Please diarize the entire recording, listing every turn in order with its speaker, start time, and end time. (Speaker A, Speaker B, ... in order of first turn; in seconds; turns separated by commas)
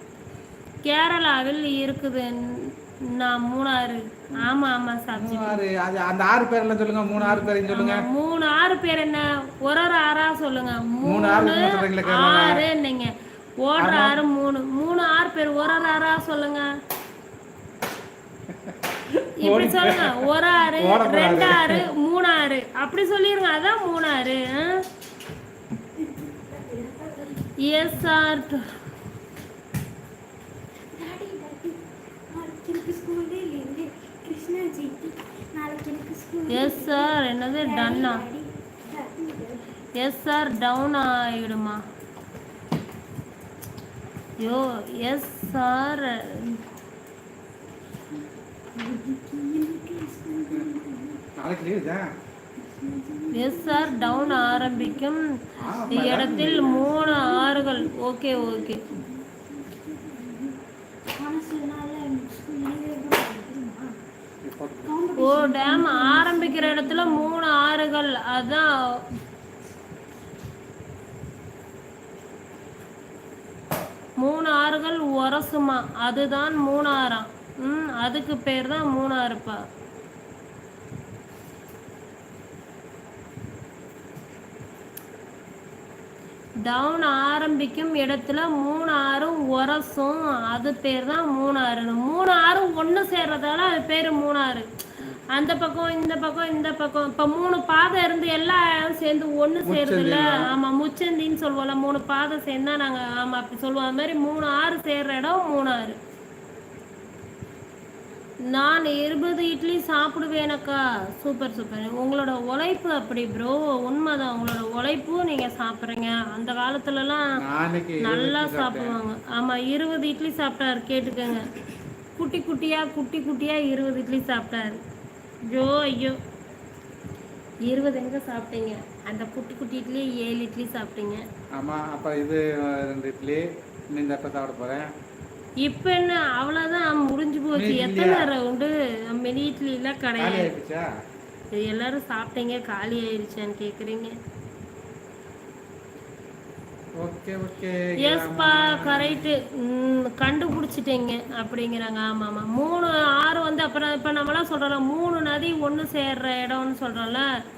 Speaker A: 0.8-5.6, Speaker B: 5.2-8.1, Speaker A: 7.2-16.7, Speaker B: 11.0-12.6, Speaker B: 13.8-14.2, Speaker B: 18.5-21.9, Speaker A: 19.4-24.8, Speaker C: 26.0-28.1, Speaker A: 27.6-28.7, Speaker C: 30.9-39.7, Speaker A: 36.5-38.2, Speaker A: 40.0-41.8, Speaker A: 44.4-46.6, Speaker C: 48.8-51.2, Speaker B: 51.4-52.1, Speaker C: 52.6-55.0, Speaker A: 53.3-55.3, Speaker B: 55.6-57.0, Speaker A: 55.9-59.0, Speaker C: 56.6-60.6, Speaker C: 61.1-64.0, Speaker B: 64.4-64.9, Speaker C: 64.8-67.3, Speaker A: 65.2-69.0, Speaker A: 74.2-79.6, Speaker A: 86.6-94.7, Speaker A: 95.3-106.0, Speaker B: 99.6-100.5, Speaker A: 108.5-117.3, Speaker B: 117.4-119.0, Speaker A: 118.0-121.5, Speaker A: 122.2-124.8, Speaker A: 125.5-126.2, Speaker A: 127.7-131.2, Speaker B: 131.5-134.9, Speaker A: 135.6-140.5, Speaker B: 137.5-138.3, Speaker B: 140.2-140.9, Speaker A: 141.5-144.1, Speaker B: 147.0-149.3, Speaker A: 148.0-157.3